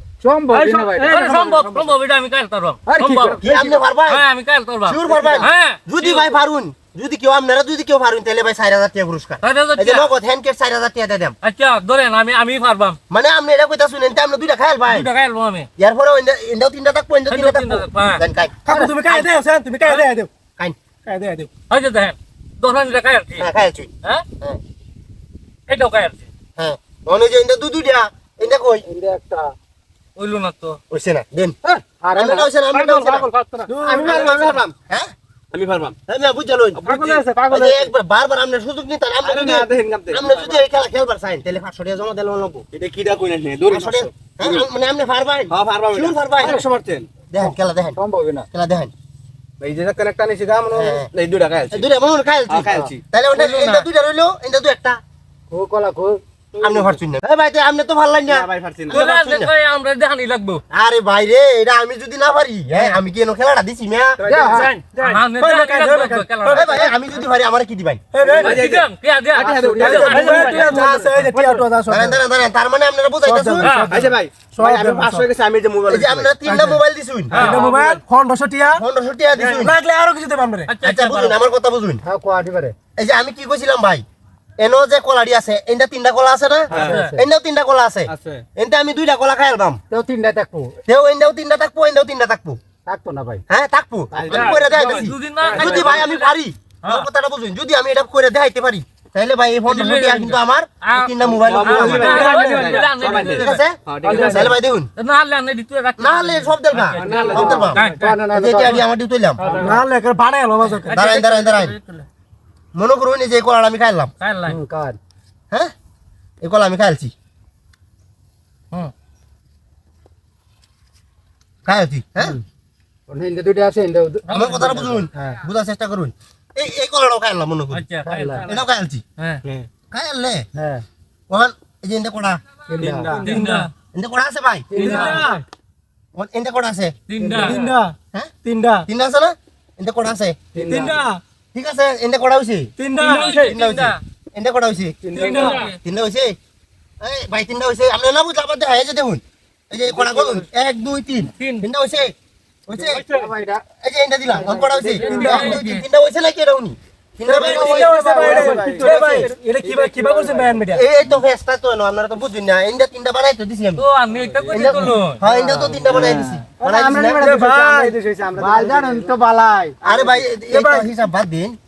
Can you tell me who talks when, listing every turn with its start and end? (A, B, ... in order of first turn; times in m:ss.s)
0:00.2-0:01.2 A
0:00.5-0:01.8 B
0:01.0-0:03.4 C
0:02.8-0:03.8 A
0:03.4-0:04.2 D
0:04.1-0:06.3 C
0:04.8-0:11.3 D
0:05.1-0:05.4 A
0:09.4-0:10.1 C
0:11.4-0:13.0 C
0:13.1-0:15.1 D
0:14.9-0:15.7 C
0:15.8-0:18.6 D
0:17.3-0:18.2 C
0:18.6-0:20.3 B
0:19.8-0:20.1 C
0:21.0-0:21.5 B
0:21.7-0:23.4 C
0:23.4-0:24.6 D
0:25.7-0:26.3 C
0:26.6-0:28.8 D
0:28.8-0:29.5 A
0:30.2-0:30.8 C
0:30.9-0:31.6 D
0:31.6-0:32.5 A
0:32.1-0:33.3 D
0:32.7-0:34.5 B
0:33.7-0:34.6 E
0:33.8-0:35.1 D
0:35.5-0:36.0 E
0:36.1-0:36.9 D
0:36.8-0:37.6 E
0:36.8-0:37.8 B
0:37.5-0:42.6 D
0:39.2-0:40.6 E
0:42.7-0:44.6 E
0:43.7-0:46.6 D
0:45.5-0:47.1 E
0:47.3-0:48.0 D
0:47.4-0:48.5 A
0:48.5-0:48.9 D
0:49.6-0:51.8 E
0:50.7-0:51.1 D
0:51.7-0:55.0 D
0:52.5-0:53.8 E
0:55.5-0:56.2 A
0:56.5-0:57.0 E
0:56.6-0:59.5 D
0:58.3-0:59.0 E
0:58.9-1:00.6 C
1:00.7-1:04.2 D
1:04.2-1:05.2 E
1:04.2-1:04.7 A
1:04.5-1:06.8 B
1:05.0-1:06.9 C
1:06.5-1:08.0 D
1:08.1-1:08.7 B
1:08.2-1:11.7 E
1:08.4-1:10.8 C
1:09.4-1:10.2 A
1:09.8-1:12.2 B
1:10.6-1:11.2 D
1:11.9-1:13.7 D
1:13.3-1:15.3 B
1:13.6-1:13.9 C
1:13.9-1:16.4 E
1:15.9-1:17.4 D
1:16.5-1:16.8 B
1:17.3-1:17.7 C
1:17.3-1:18.0 E
1:17.3-1:18.8 B
1:18.8-1:19.8 D
1:19.4-1:19.6 E
1:19.5-1:20.7 B
1:20.7-1:21.4 C
1:20.8-1:22.0 D
1:22.0-1:22.7 A
1:23.0-1:24.0 D
1:24.6-1:29.8 D
1:26.7-1:27.0 E
1:26.8-1:27.2 A
1:26.8-1:27.1 C
1:28.1-1:28.4 E
1:29.9-1:30.8 A
1:30.9-1:32.6 D
1:32.8-1:33.4 A
1:33.5-1:42.3 D
1:34.1-1:34.8 E
1:34.3-1:36.3 C
1:35.4-1:36.0 E
1:39.7-1:43.6 C
1:41.3-1:44.6 E
1:42.2-1:42.8 B
1:43.3-1:44.9 D
1:44.0-1:44.4 B
1:44.1-1:44.5 A
1:45.0-1:48.1 C
1:46.0-1:47.8 D
1:46.9-1:47.6 E
1:47.0-1:48.8 A
1:48.3-1:49.4 D
1:49.4-1:51.0 B
1:49.4-1:49.8 E
1:49.4-1:49.8 A
1:50.8-1:52.1 C
1:50.9-1:51.8 D
1:52.7-1:54.1 D
1:54.2-1:54.6 C
1:54.5-1:55.0 A
1:56.4-1:57.1 D
2:01.6-2:02.4 D
2:03.1-2:05.4 A
2:04.3-2:04.9 C
2:04.3-2:07.8 D
2:07.7-2:09.4 C
2:08.0-2:08.4 A
2:08.4-2:09.0 D
2:09.9-2:10.5 D
2:10.6-2:10.8 A
2:11.3-2:12.4 D
2:12.7-2:13.3 A
2:12.8-2:13.4 E
2:13.2-2:13.7 B
2:13.2-2:13.7 C
2:13.9-2:15.2 D
2:14.7-2:15.4 A
2:14.8-2:15.4 B
2:16.1-2:17.0 D
2:17.1-2:17.6 C
2:17.2-2:17.7 A
2:17.4-2:18.9 B
2:18.8-2:20.4 D
2:20.5-2:21.0 A
2:20.6-2:21.2 B
2:21.5-2:22.7 D
2:22.8-2:23.5 B
2:23.0-2:24.0 C
2:23.3-2:26.4 D
2:25.1-2:25.6 A
2:25.1-2:25.8 C
2:25.2-2:25.7 B
2:27.0-2:32.1 D
2:31.4-2:31.6 C
2:32.7-2:33.1 D
2:32.8-2:33.6 A
2:33.8-2:38.2 D
2:34.3-2:35.6 A
2:35.0-2:35.8 C
2:35.0-2:35.5 B
2:37.3-2:40.8 B
2:37.3-2:40.5 A
2:37.4-2:39.3 E
2:38.8-2:39.3 D
2:40.7-2:43.8 D
2:43.8-2:45.2 C
2:44.1-2:44.9 E
2:44.5-2:47.3 D
2:45.3-2:46.1 A
2:45.9-2:46.4 E
2:46.7-2:49.8 A
2:47.2-2:47.9 B
2:47.2-2:49.1 E
2:49.8-2:51.6 D
2:49.8-2:50.2 E
2:50.5-2:50.9 B